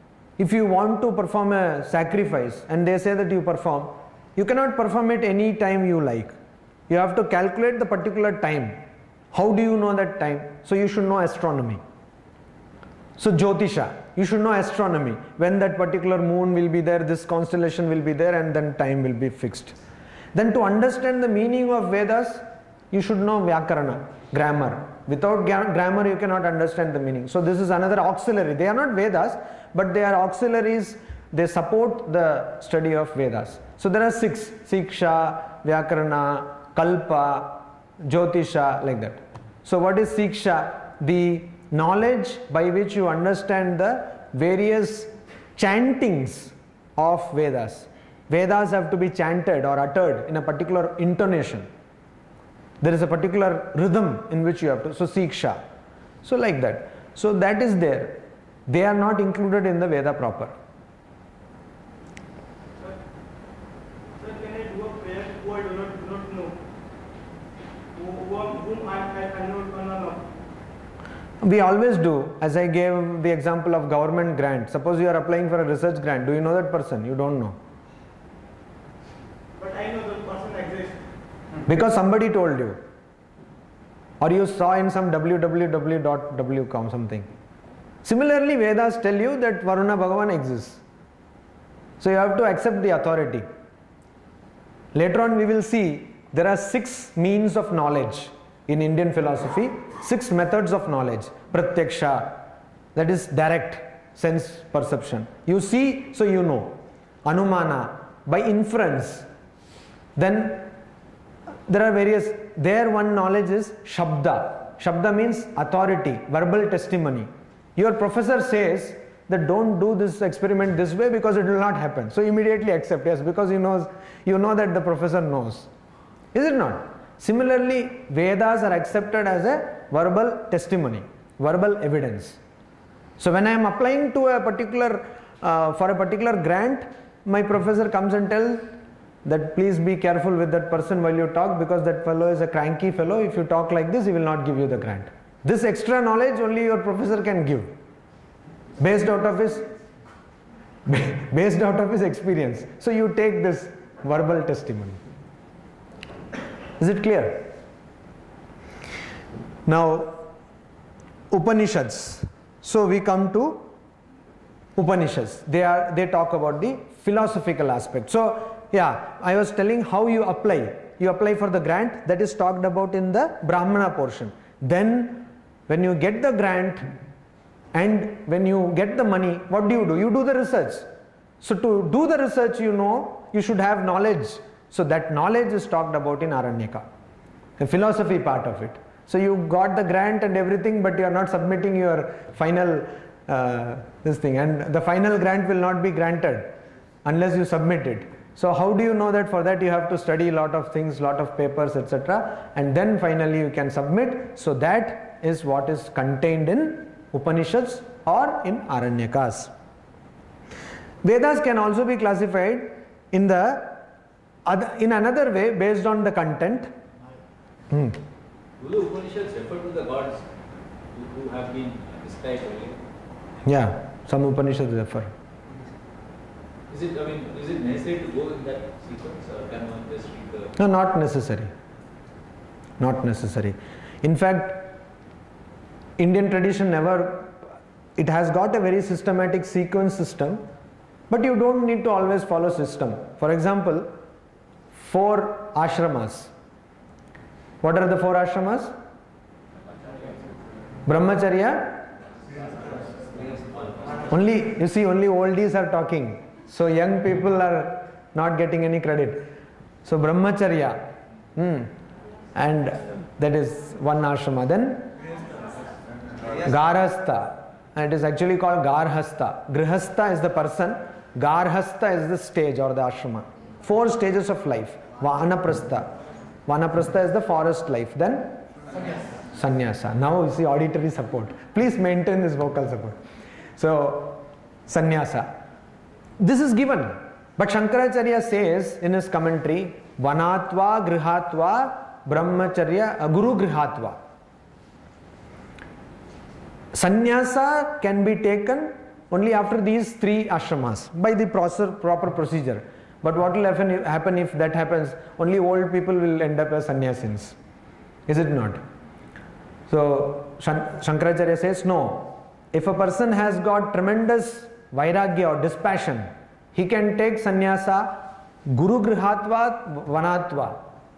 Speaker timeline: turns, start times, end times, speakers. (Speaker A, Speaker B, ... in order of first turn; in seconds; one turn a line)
Speaker A: 0.4-6.3
Speaker A: 6.9-8.8
Speaker A: 9.3-11.8
Speaker A: 13.2-19.7
Speaker A: 20.3-51.7
Speaker A: 52.8-55.6
Speaker A: 56.2-60.5
Speaker B: 64.2-66.5
Speaker B: 67.9-70.2
Speaker A: 71.4-77.6
Speaker B: 79.6-81.0
Speaker A: 81.7-82.8
Speaker A: 84.2-87.3
Speaker A: 88.0-90.8
Speaker A: 92.0-93.5
Speaker A: 94.9-102.4
Speaker A: 102.9-109.2
Speaker A: 110.2-110.7
Speaker A: 111.7-125.7
Speaker A: 126.3-132.4
Speaker A: 133.2-138.7
Speaker A: 139.2-147.7
Speaker A: 148.8-149.7
Speaker A: 150.9-155.0
Speaker A: 156.8-157.5
Speaker A: 159.7-160.3
Speaker A: 161.3-163.6
Speaker A: 164.8-176.9
Speaker A: 177.7-180.9
Speaker A: 181.4-186.8
Speaker A: 187.6-196.5
Speaker A: 197.0-209.5
Speaker A: 211.0-213.8
Speaker A: 214.4-216.7
Speaker A: 217.7-218.0
Speaker C: 218.6-220.2
Speaker C: 220.9-222.8
Speaker A: 223.4-225.1
Speaker C: 226.7-230.5
Speaker A: 230.6-231.5
Speaker A: 232.8-234.8
Speaker A: 236.0-237.3
Speaker A: 238.0-240.4
Speaker A: 241.1-243.9
Speaker A: 244.7-246.3
Speaker A: 247.6-248.7
Speaker C: 249.7-250.1
Speaker A: 250.9-251.8
Speaker C: 252.3-254.1
Speaker A: 254.1-259.3
Speaker A: 259.8-261.7
Speaker A: 262.3-264.9
Speaker A: 266.4-275.9
Speaker A: 276.5-278.4
Speaker A: 279.3-283.0
Speaker A: 283.6-285.3
Speaker A: 286.2-294.0
Speaker A: 296.7-307.4
Speaker A: 308.1-308.6
Speaker A: 309.7-320.6